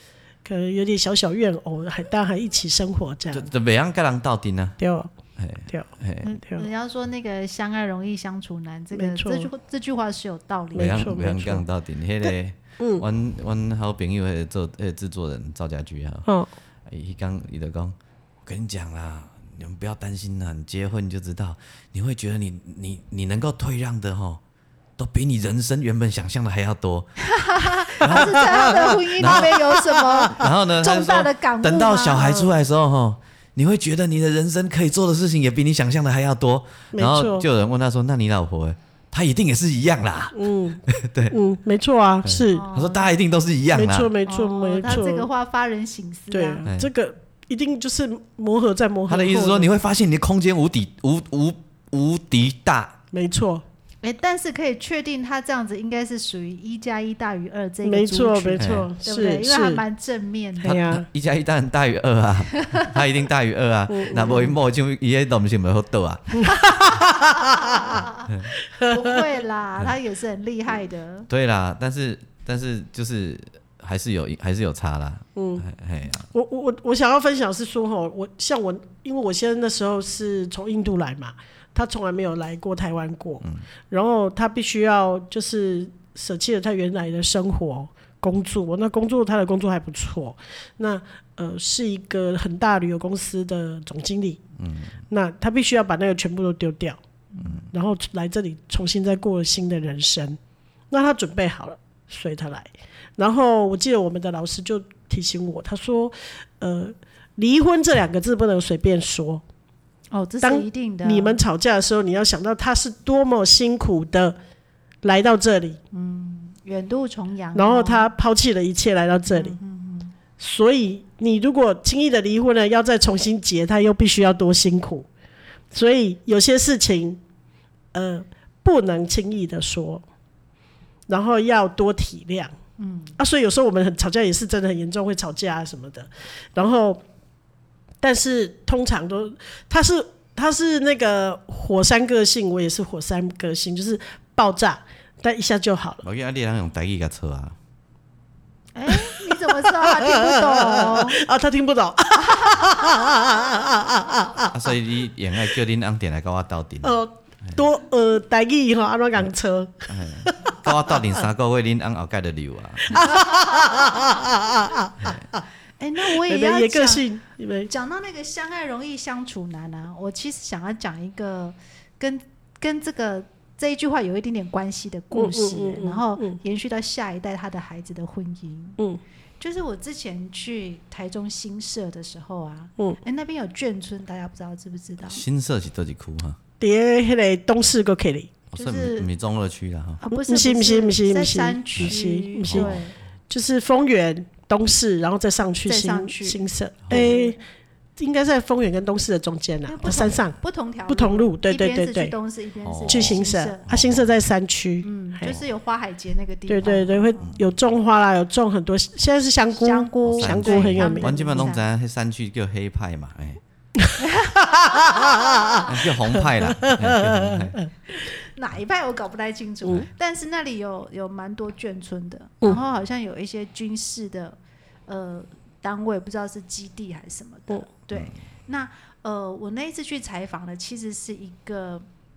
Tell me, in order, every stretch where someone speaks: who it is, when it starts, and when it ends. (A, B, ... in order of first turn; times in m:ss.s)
0:00.4-0:03.5 A
0:03.3-0:04.8 B
0:04.8-0:05.1 A
0:05.4-0:06.2 B
0:06.2-0:11.1 C
0:06.4-0:06.7 A
0:08.9-0:09.5 A
0:10.7-0:11.6 A
0:10.8-0:16.3 B
0:12.2-0:13.0 A
0:16.9-0:17.9 B
0:18.4-0:24.4 B
0:25.0-0:27.3 B
0:27.3-0:32.4 C
0:28.0-0:29.5 B
0:30.3-0:41.4 B
0:32.2-0:32.5 A
0:36.9-0:37.5 A
0:40.3-0:42.6 A
0:42.2-0:44.1 B
0:42.5-0:43.1 C
0:43.7-0:45.3 A
0:44.2-0:46.6 C
0:46.3-0:49.7 A
0:46.6-0:46.9 B
0:49.1-0:53.0 B
0:53.1-0:53.6 A
0:54.0-1:00.8 C
0:57.8-0:59.8 A
0:58.6-0:58.9 B
1:00.6-1:01.0 A
1:00.6-1:07.0 B
1:03.9-1:04.5 A
1:06.5-1:07.9 A
1:07.4-1:08.3 C
1:08.8-1:09.3 A
1:08.8-1:11.3 C
1:11.3-1:16.3 B
1:15.4-1:15.6 A
1:16.3-1:34.4 A
1:34.6-1:34.9 B
1:35.1-1:37.0 A
1:37.4-1:37.6 B
1:37.7-1:40.4 A
1:40.9-1:49.4 A
1:50.1-1:51.4 C
1:50.4-1:54.4 A
1:55.0-1:55.8 A
1:55.9-1:58.1 C
1:57.5-1:59.6 A
1:59.3-2:00.1 C
2:00.4-2:05.0 A
2:05.7-2:07.2 A
2:07.9-2:10.0 A
2:11.1-2:12.5 A
2:12.8-2:13.2 C
2:13.2-2:17.0 A
2:18.0-2:26.0 A
2:26.0-2:27.6 B
2:28.7-2:31.2 C
2:28.9-2:34.5 A
2:32.3-2:33.1 C
2:34.5-2:37.0 B
2:36.8-2:41.0 A
2:39.9-2:43.2 B
2:42.9-2:45.4 A
2:45.0-2:45.3 B
2:45.8-2:47.0 C
2:46.0-2:47.7 A
2:47.7-2:58.8 C
2:55.1-2:56.4 A
2:59.4-3:05.2 C
3:05.1-3:06.4 B
3:06.6-3:08.3 A
3:08.5-3:10.0 B
3:08.5-3:09.1 C
3:10.0-3:13.0 C
3:10.1-3:12.8 A
3:12.4-3:12.8 B
3:13.3-3:17.4 A
3:15.6-3:17.4 C
3:16.8-3:17.1 B
3:18.0-3:22.1 A
3:19.7-3:23.7 C
3:22.6-3:24.1 B
3:22.9-3:25.4 A
3:24.8-3:27.3 C
3:26.5-3:31.1 A
3:29.6-3:31.6 C
3:30.1-3:33.4 B
3:34.0-3:35.7 C
3:34.6-3:37.7 A
3:35.6-3:37.6 B
3:37.9-3:51.8 C